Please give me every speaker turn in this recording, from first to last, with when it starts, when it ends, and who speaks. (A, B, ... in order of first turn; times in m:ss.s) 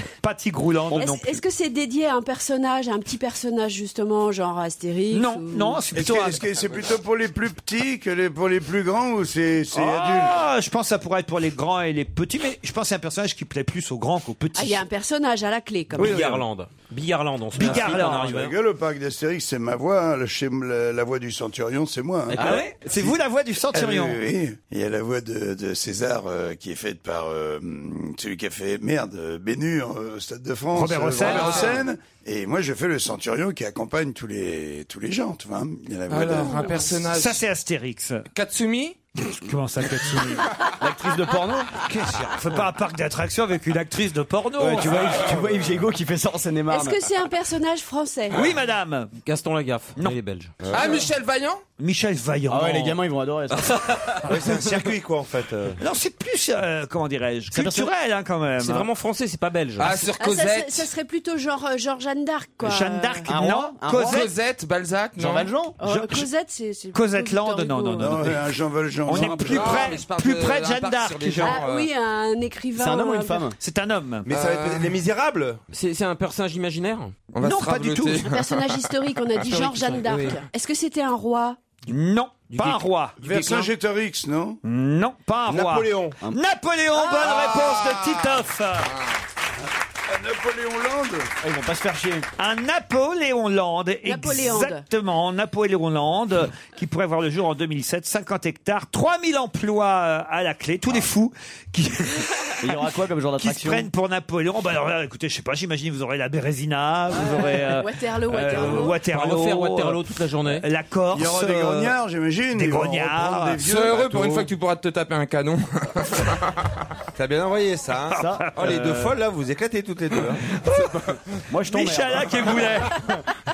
0:00.2-0:01.4 A
0:00.9-0:05.8 B
0:05.1-0:06.4 A
0:05.9-0:10.4 C
0:09.7-0:14.9 A
0:14.6-0:16.4 B
0:15.9-0:18.5 D
0:17.6-0:18.4 A
0:17.6-0:23.2 C
0:22.3-0:22.8 E
0:22.4-0:24.2 A
0:23.7-0:36.8 C
0:30.7-0:31.7 A
0:31.2-0:31.8 F
0:36.1-0:37.4 F
0:37.1-0:38.3 A
0:38.3-0:39.0 F
0:39.2-0:40.5 A
0:40.8-0:41.8 E
0:41.9-0:45.2 A
0:44.6-0:47.0 E
0:46.7-0:48.4 B
0:48.3-0:49.1 A
0:49.2-0:50.5 D
0:50.7-0:51.6 F
0:51.8-0:53.0 A
0:52.5-0:54.3 E
0:54.3-0:55.8 G
0:55.8-0:58.9 A
0:57.5-0:57.9 E
0:58.6-1:00.0 D
0:59.8-1:00.9 F
1:00.2-1:03.3 B
1:02.6-1:04.3 A
1:03.3-1:04.3 E
1:04.0-1:05.5 F
1:05.2-1:05.8 E
1:05.8-1:08.2 B
1:05.8-1:06.3 A
1:06.9-1:08.5 A
1:08.0-1:10.0 C
1:09.1-1:11.6 A
1:09.4-1:11.9 F
1:11.4-1:13.5 B
1:12.8-1:13.6 E
1:13.6-1:14.3 A
1:14.3-1:15.6 G
1:14.3-1:15.0 F
1:15.7-1:17.2 D
1:17.3-1:18.8 F
1:17.4-1:18.3 A
1:18.2-1:21.6 B
1:19.8-1:20.3 D
1:21.9-1:23.7 A
1:23.2-1:24.6 C
1:24.6-1:28.9 A
1:25.5-1:26.2 G
1:26.9-1:27.4 B
1:27.5-1:28.1 F
1:30.1-1:31.3 C
1:31.4-1:32.3 E
1:32.4-1:52.0 A
1:34.0-1:34.8 B
1:42.6-1:43.9 E
1:47.1-1:49.0 B
1:48.5-1:50.6 D
1:51.1-1:54.5 C
1:52.6-1:53.6 A
1:53.6-1:56.4 F
1:57.2-2:00.4 G
1:58.1-1:58.5 E
1:58.2-1:59.2 A
2:01.5-2:02.8 E
2:01.7-2:03.0 A